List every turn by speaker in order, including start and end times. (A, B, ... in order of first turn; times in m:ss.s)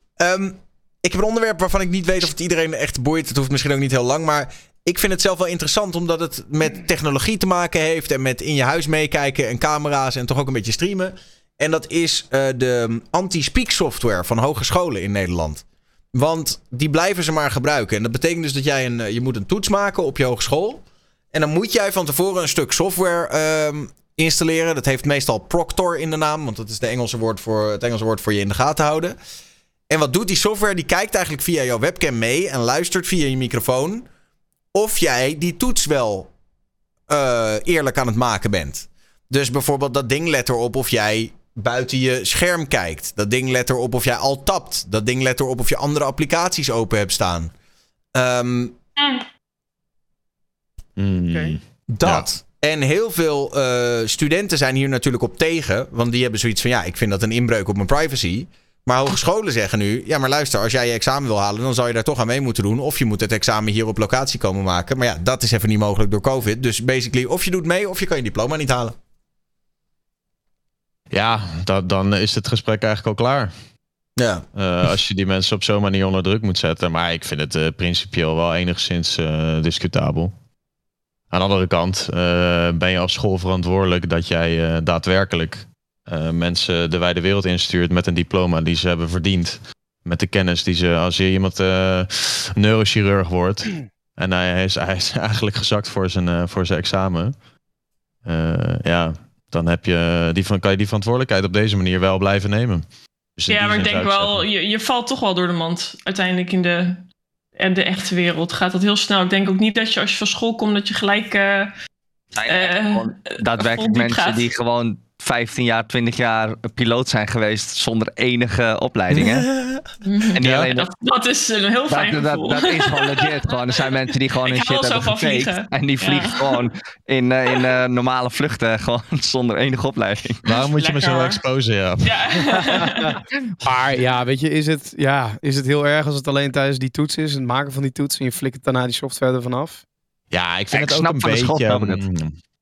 0:00.2-0:29.2 A
0:29.9-0:34.1 A
0:34.8-0:36.3 A
0:37.1-0:47.5 A
0:48.2-0:48.8 A
0:49.0-0:49.3 B
0:51.0-0:52.3 C
0:51.9-1:09.0 A
1:11.1-1:13.5 C
1:14.2-1:14.4 A
1:14.5-1:20.3 C
1:21.3-1:37.4 C
1:38.2-1:44.5 C
1:43.5-1:47.0 B
1:47.6-1:51.7 B
1:52.3-1:59.5 D
1:52.5-1:54.4 B
1:59.1-1:59.9 A
2:00.0-2:03.4 B
2:00.4-2:00.9 D
2:00.4-2:00.7 C
2:01.9-2:10.4 D
2:04.4-2:06.6 B
2:10.4-2:12.6 C
2:10.8-2:11.4 B
2:12.0-2:13.2 B
2:12.7-2:13.1 E
2:13.6-2:19.8 E
2:20.3-2:22.4 C
2:20.7-2:22.0 D